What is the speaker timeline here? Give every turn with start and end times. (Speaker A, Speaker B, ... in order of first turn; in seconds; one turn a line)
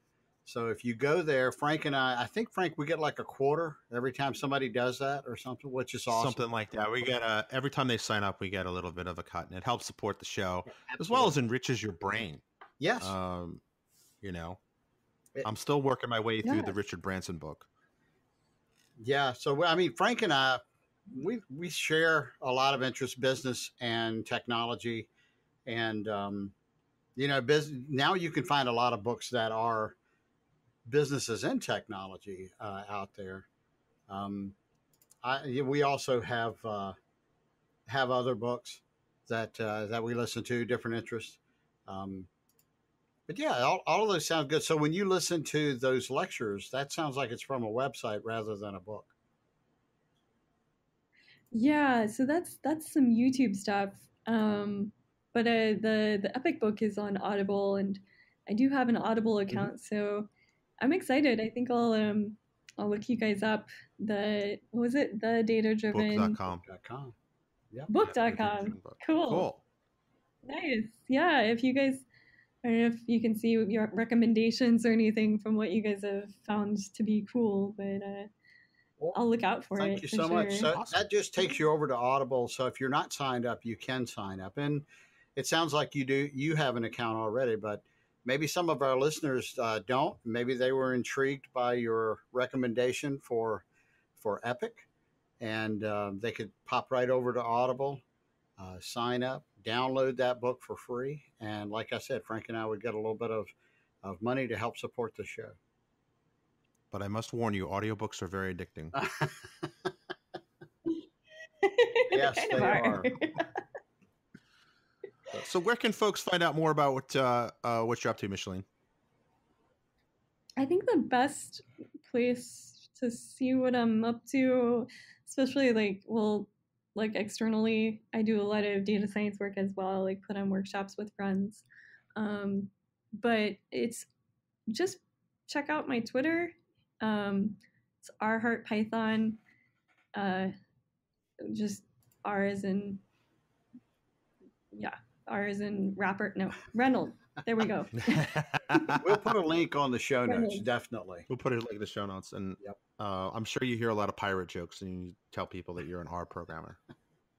Speaker A: 0.4-6.4
Speaker B: 6.1-12.4
Speaker A: 10.7-11.3
Speaker A: 12.8-13.1
Speaker B: 13.0-13.6
Speaker B: 14.2-14.6
Speaker B: 15.4-17.7
Speaker C: 16.4-16.8
Speaker A: 19.0-25.1
Speaker A: 25.6-26.5
Speaker A: 27.1-30.0
Speaker A: 30.8-33.5
Speaker A: 34.1-34.5
Speaker A: 35.2-37.0
Speaker A: 37.9-42.3
Speaker A: 43.3-49.1
Speaker C: 51.5-60.3
Speaker C: 60.8-66.4
Speaker B: 65.9-66.6
Speaker A: 66.5-67.1
Speaker C: 67.9-69.5
Speaker B: 68.0-69.6
Speaker C: 70.4-72.0
Speaker C: 72.6-78.3
Speaker C: 79.1-80.7
Speaker A: 79.8-93.6
Speaker B: 80.7-81.0
Speaker A: 94.2-94.9
Speaker A: 95.4-98.0
Speaker A: 98.6-105.6
Speaker B: 106.9-109.0
Speaker A: 108.9-109.9
Speaker C: 111.6-113.6
Speaker A: 112.1-113.1
Speaker B: 115.4-118.6
Speaker C: 120.6-131.6
Speaker C: 132.2-134.1
Speaker C: 134.7-139.4
Speaker C: 140.2-140.5
Speaker C: 141.4-143.0
Speaker C: 144.7-148.9
Speaker B: 148.0-149.0
Speaker A: 148.9-151.3
Speaker C: 150.3-150.6
Speaker B: 151.3-156.8